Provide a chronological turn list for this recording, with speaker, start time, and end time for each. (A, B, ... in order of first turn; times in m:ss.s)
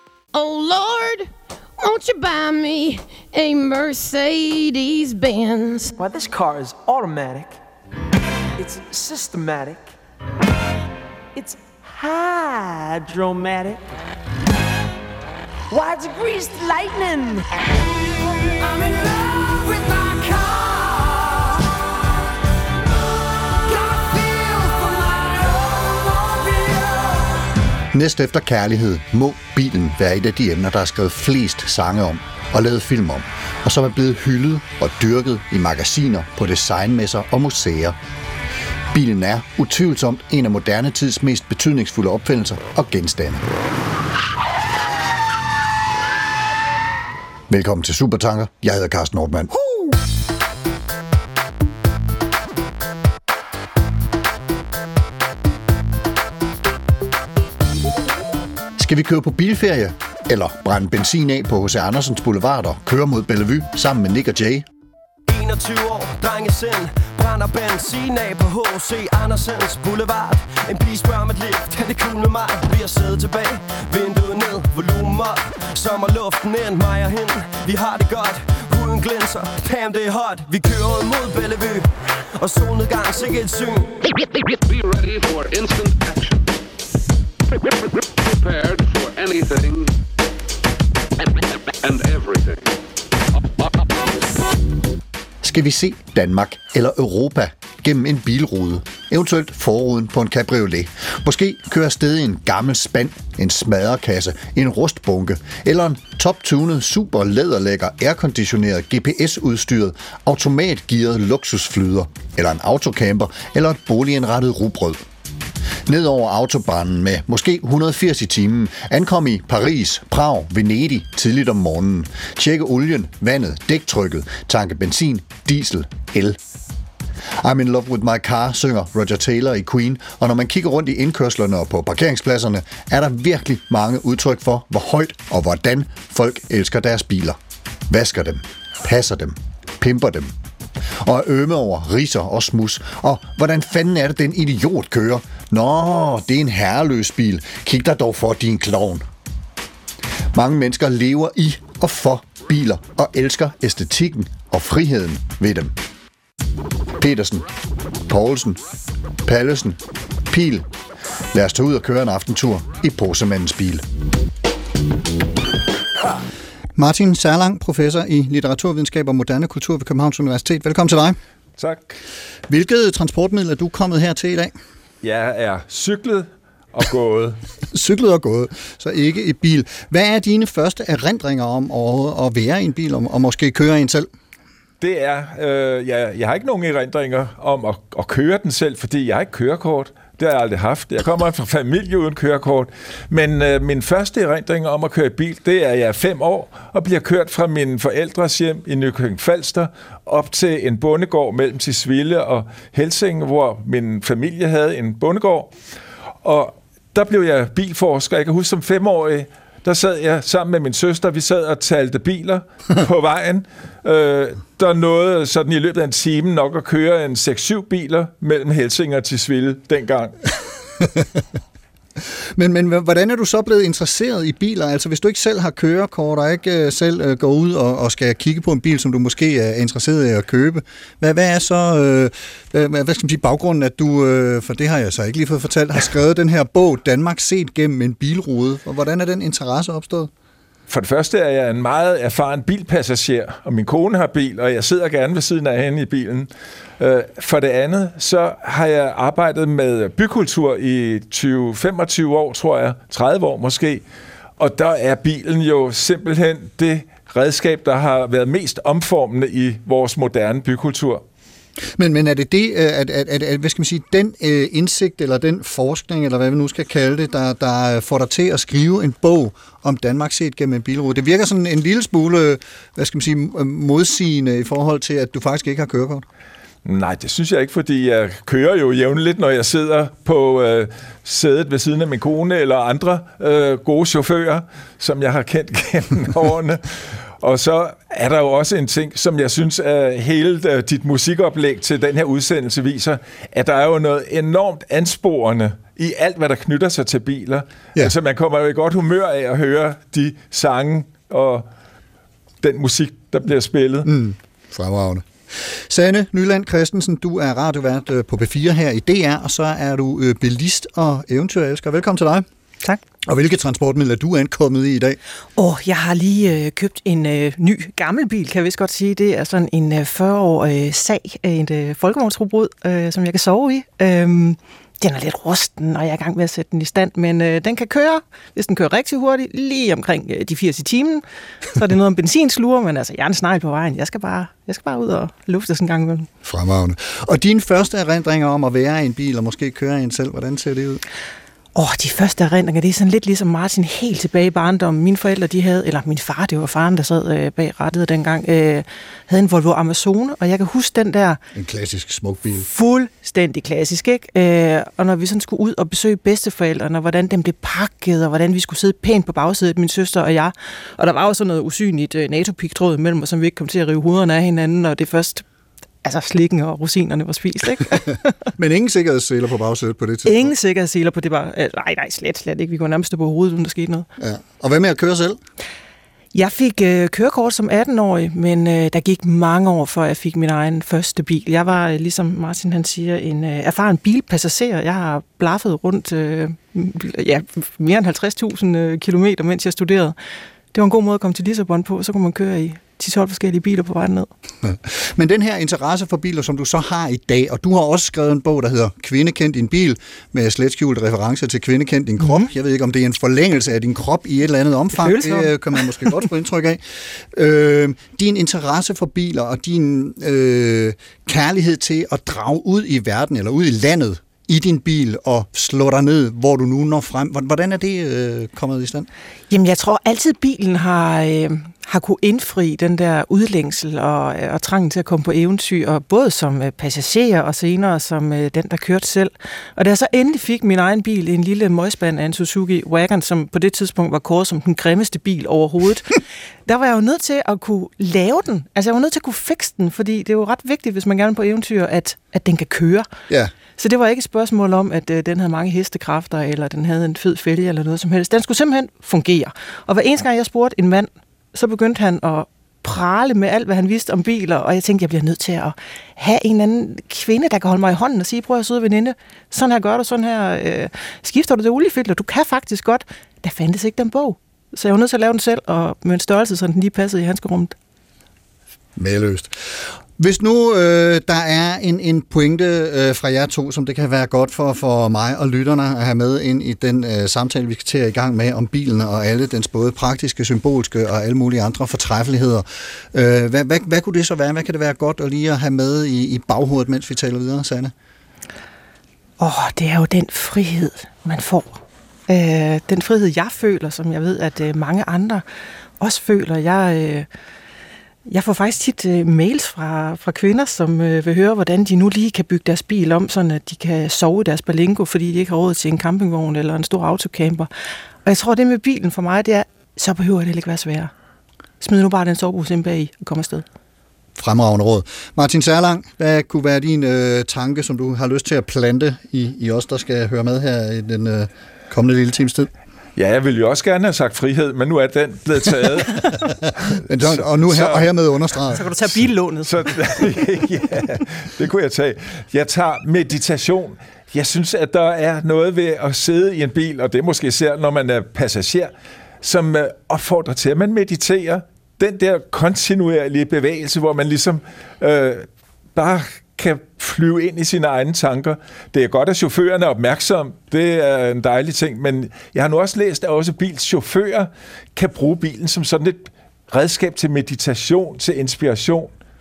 0:00.3-0:05.9 A
0:05.9-0:07.6 B
0:08.6-0:09.9 B
0:11.4-0:13.8 B
0:15.7-0:17.7 B
0:18.2-0:21.8 B
0:23.3-0:27.4 B
0:27.9-0:38.0 C
0:38.9-0:43.4 C
0:47.5-0:49.5 C
0:58.8-1:04.6 C
1:05.3-1:23.9 D
1:24.5-1:26.4 E
1:27.6-1:29.9 E
1:31.2-1:32.7 E
1:35.4-1:55.0 C
1:55.9-2:06.4 C
2:07.4-2:17.4 C
2:17.9-2:20.3 C
2:21.0-2:29.0 C
2:30.3-2:35.7 C
2:37.0-2:37.4 C
2:38.1-2:38.6 C
2:39.3-2:39.8 C
2:40.3-2:40.6 C
2:41.3-2:43.8 C
2:46.8-2:51.2 C
2:51.6-2:52.0 F
2:52.5-2:54.6 C
2:55.0-2:57.4 F
2:57.7-3:04.1 C
3:04.8-3:25.5 F
3:26.2-3:40.2 F
3:42.4-4:00.1 C
4:00.7-4:13.8 F
4:14.4-4:21.0 F
4:21.8-4:36.1 C
4:36.6-5:01.4 F
5:02.4-5:03.9 F
5:03.8-5:12.2 C
5:13.0-5:15.0 C
5:15.4-5:31.0 G
5:31.5-5:36.1 G
5:36.2-5:40.8 C
5:41.5-5:51.2 G
5:51.3-5:52.5 C
5:52.4-6:05.2 G
6:05.8-6:08.0 G
6:08.4-6:10.3 C
6:10.1-6:13.8 G
6:14.0-6:15.2 C
6:16.1-6:30.0 G
6:30.5-6:34.1 G
6:34.4-6:46.6 C
6:42.0-6:42.3 G
6:44.8-6:46.0 G
6:47.1-6:58.9 C
6:59.3-7:22.9 G
7:23.6-7:47.5 G
7:48.8-7:49.3 C
7:50.0-8:07.7 C
8:09.2-8:15.2 G
8:15.8-8:17.1 G
8:18.1-8:27.5 G
8:28.0-8:30.9 G
8:31.6-8:33.4 G
8:34.2-8:42.5 C
8:43.0-8:47.9 F
8:46.8-8:48.7 C
8:48.5-8:49.6 G
8:49.4-9:18.9 F